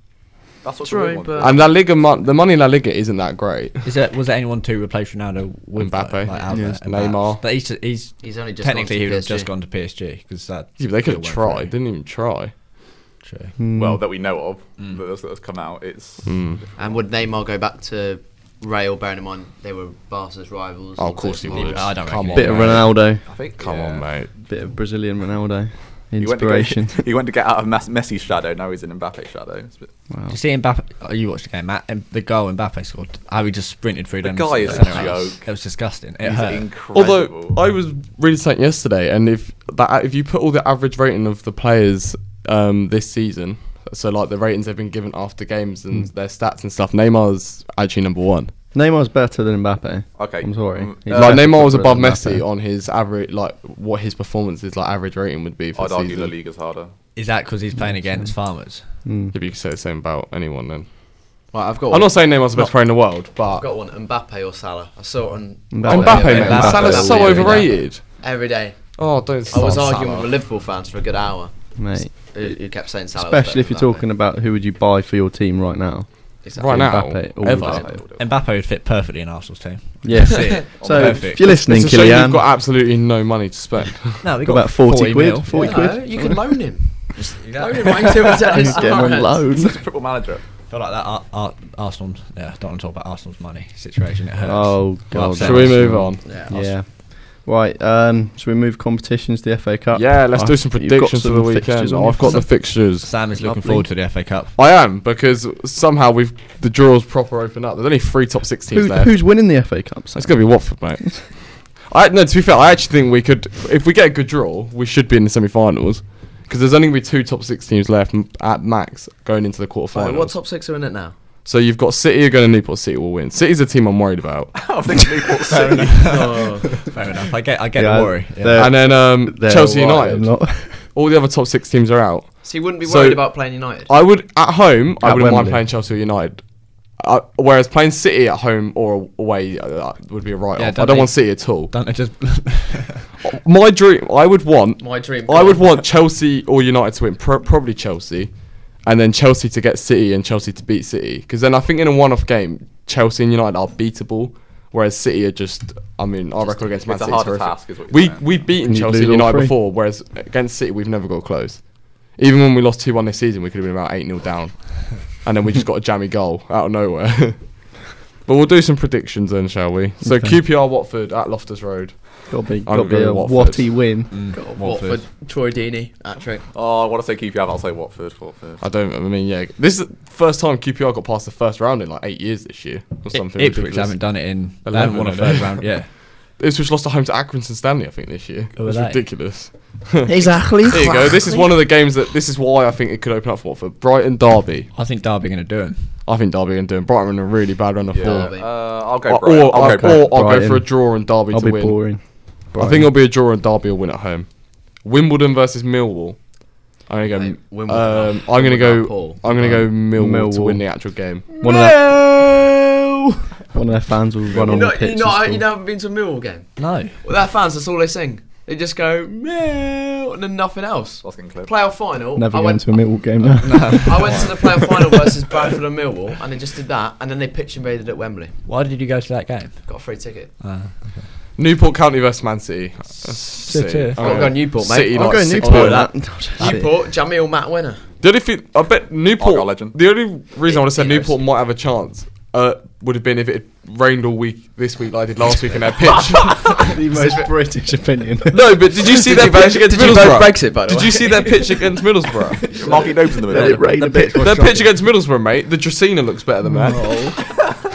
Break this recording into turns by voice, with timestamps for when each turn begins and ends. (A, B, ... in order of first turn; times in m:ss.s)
0:00.6-0:01.7 A
0:00.8-0:01.6 B
0:01.4-0:03.9 C
0:03.8-0:11.7 D
0:05.8-0:07.4 C
0:06.5-0:06.8 E
0:08.2-0:09.5 B
0:10.8-0:12.5 C
0:13.2-0:13.6 D
0:13.6-0:14.0 E
0:13.8-0:17.0 A
0:16.2-0:16.6 C
0:16.8-0:21.9 B
0:21.0-0:23.0 C
0:21.5-0:23.0 D
0:22.3-0:23.2 E
0:23.2-0:24.1 A
0:23.6-0:24.3 C
0:24.4-0:27.1 E
0:26.2-0:29.9 A
0:30.1-0:30.4 E
0:30.3-0:36.7 D
0:34.2-0:35.5 A
0:36.2-0:37.6 A
0:36.9-0:48.5 C
0:48.7-0:52.4 E
0:50.2-0:51.5 A
0:51.1-0:56.3 C
0:55.8-0:56.9 A
0:57.2-0:58.8 D
0:57.8-0:58.4 E
0:59.0-0:59.3 E
0:59.3-1:00.9 C
1:01.5-1:02.3 B
1:01.9-1:03.7 C
1:03.5-1:14.1 B
1:05.7-1:07.6 E
1:05.9-1:08.2 C
1:06.1-1:07.7 D
1:09.0-1:10.3 C
1:11.8-1:12.6 E
1:13.1-1:18.0 E
1:16.4-1:17.0 B
1:16.6-1:17.9 C
1:17.6-1:18.3 A
1:18.2-1:21.5 D
1:20.0-1:22.4 E
1:20.2-1:20.6 B
1:20.8-1:21.4 A
1:21.5-1:24.3 C
1:24.2-1:26.0 D
1:24.4-1:26.6 E
1:25.5-1:29.4 B
1:27.4-1:28.2 D
1:28.2-1:30.4 A
1:28.5-1:29.8 E
1:30.7-1:36.0 D
1:34.4-1:42.5 E
1:35.3-1:36.3 C
1:36.2-1:36.7 B
1:39.9-1:43.2 C
1:42.3-1:44.5 D
1:43.4-1:43.9 E
1:44.6-1:49.3 C
1:48.7-1:51.2 E
1:50.2-2:00.4 C
1:59.9-2:01.2 B
2:01.4-2:04.5 C
2:04.5-2:06.4 A
2:05.7-2:08.8 D
2:06.0-2:06.8 B
2:07.8-2:10.9 E
2:08.5-2:21.7 C
2:12.4-2:13.9 B
2:15.0-2:15.7 E
2:20.6-2:23.1 D
2:23.2-2:53.8 C
2:24.8-2:25.8 B
2:36.4-2:37.2 B
2:36.9-2:38.5 A
2:38.6-2:39.6 E
2:52.3-2:54.1 E
2:54.1-2:55.0 D
2:54.3-2:56.4 B
2:56.5-2:58.6 A
2:58.6-3:04.1 C
3:03.1-3:06.0 D
3:04.6-3:14.7 C
3:08.6-3:09.1 D
3:10.1-3:11.5 E
3:14.7-3:16.0 D
3:16.0-3:31.4 C
3:17.9-3:20.2 A
3:18.0-3:18.5 B
3:19.6-3:22.9 E
3:27.1-3:29.2 B
3:29.3-3:30.9 E
3:31.4-3:32.3 B
3:31.4-3:32.5 E
3:33.5-3:35.4 E
3:34.4-3:42.7 B
3:36.6-3:37.0 D
3:41.0-3:41.5 A
3:42.2-3:44.2 E
3:43.4-3:44.3 D
3:43.8-3:48.4 B
3:44.1-3:44.4 C
3:48.5-3:49.6 D
3:49.6-3:50.3 B
3:50.4-3:51.1 D
3:51.4-3:55.9 C
3:53.0-3:54.4 D
3:54.0-3:57.8 B
3:54.9-3:56.7 E
3:56.4-3:56.7 D
3:58.0-4:06.6 C
3:59.2-3:59.8 A
4:00.4-4:01.2 B
4:06.4-4:07.3 B
4:06.5-4:08.7 E
4:08.3-4:12.5 C
4:08.8-4:11.7 B
4:12.2-4:13.0 B
4:12.5-4:13.8 A
4:13.2-4:14.8 E
4:13.3-4:14.5 D
4:14.1-4:17.0 C
4:16.5-4:17.2 E